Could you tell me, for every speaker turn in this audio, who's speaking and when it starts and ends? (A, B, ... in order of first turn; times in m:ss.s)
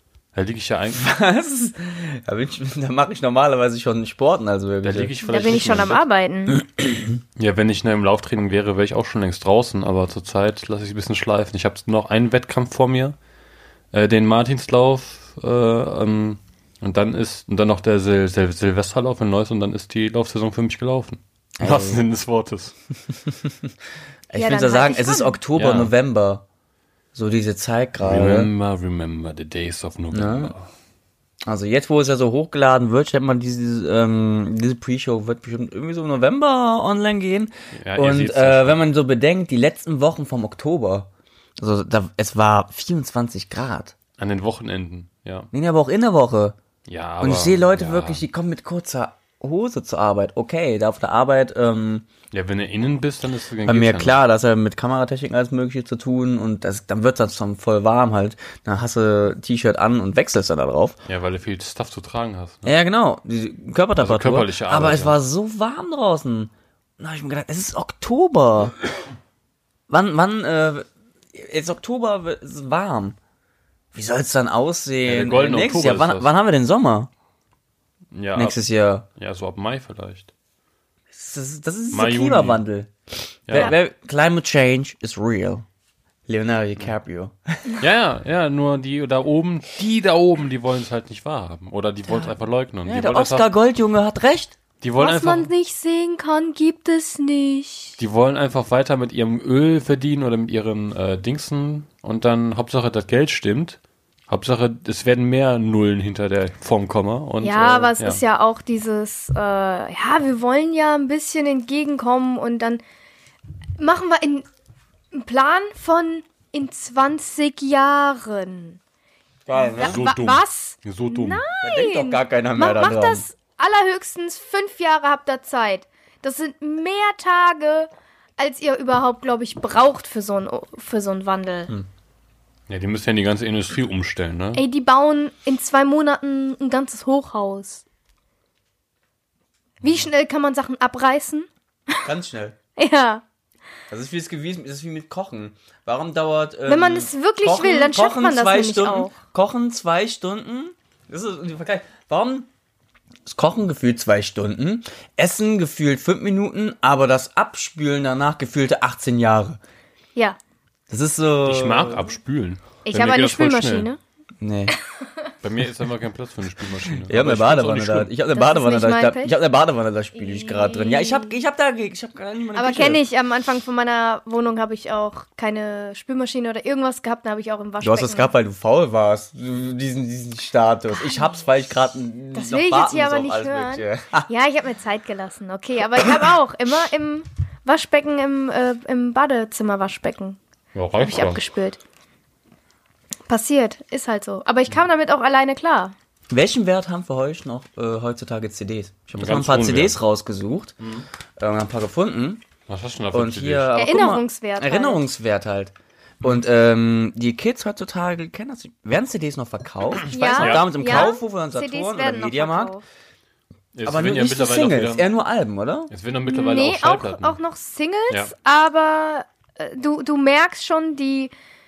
0:00.3-0:01.0 A
0:00.9-0:05.2 B
0:04.8-0:06.0 A
0:05.2-0:06.6 C
0:06.7-0:07.2 B
0:07.4-0:13.2 A
0:13.9-0:22.7 A
0:21.6-0:22.0 B
0:23.2-0:23.7 B
0:24.3-0:26.4 B
0:24.3-0:25.4 C
0:25.6-0:25.9 A
0:27.1-0:28.5 B
0:28.0-0:30.7 A
0:30.1-0:30.5 B
0:31.4-0:41.1 B
0:37.7-0:38.8 A
0:41.6-0:44.0 B
0:44.2-0:45.5 A
0:45.5-0:46.6 B
0:46.8-0:48.2 A
0:47.2-0:52.1 B
0:52.3-0:54.2 A
0:53.6-1:01.0 B
1:01.0-1:02.7 A
1:02.6-1:08.8 B
1:04.0-1:05.2 A
1:09.9-1:13.2 B
1:13.9-1:17.1 B
1:15.0-1:16.3 A
1:18.1-1:20.3 A
1:18.3-1:19.0 B
1:21.1-1:22.9 B
1:21.9-1:22.6 A
1:23.5-1:23.7 A
1:23.5-1:25.6 B
1:26.3-1:27.8 B
1:27.8-1:33.5 A
1:32.1-1:32.3 B
1:32.8-1:34.6 B
1:34.8-1:35.5 A
1:35.0-1:38.0 C
1:38.0-1:48.2 A
1:47.4-1:52.8 C
1:53.8-1:54.4 C
1:55.1-1:58.8 C
1:59.5-2:00.0 B
1:59.6-2:11.7 C
1:59.8-2:01.4 A
2:01.6-2:03.2 B
2:12.7-2:14.6 A
2:14.5-2:17.8 C
2:19.8-2:22.0 C
2:22.0-2:22.6 B
2:22.8-2:23.2 C
2:23.9-2:32.5 B
2:26.7-2:29.1 C
2:33.3-2:39.6 B
2:40.9-2:42.1 B
2:41.4-2:43.9 A
2:42.8-2:44.0 C
2:44.4-2:44.8 B
2:44.8-2:45.3 C
2:45.4-2:48.1 A
2:46.9-2:53.0 B
2:48.3-2:49.4 C
2:50.1-2:51.4 C
2:52.6-2:58.3 C
2:57.8-3:04.3 B
3:01.0-3:01.3 C
3:02.3-3:10.4 C
3:10.7-3:11.4 A
3:11.0-3:11.8 C
3:13.3-3:15.9 C
3:16.3-3:20.8 B
3:19.2-3:20.0 A
3:20.8-3:21.1 A
3:21.4-3:22.4 B
3:22.7-3:23.7 A
3:23.1-3:32.7 B
3:23.8-3:25.0 C
3:30.1-3:32.8 C
3:30.4-3:31.0 A
3:33.7-3:35.1 A
3:33.8-3:35.9 B
3:35.9-3:37.4 A
3:36.3-3:41.3 C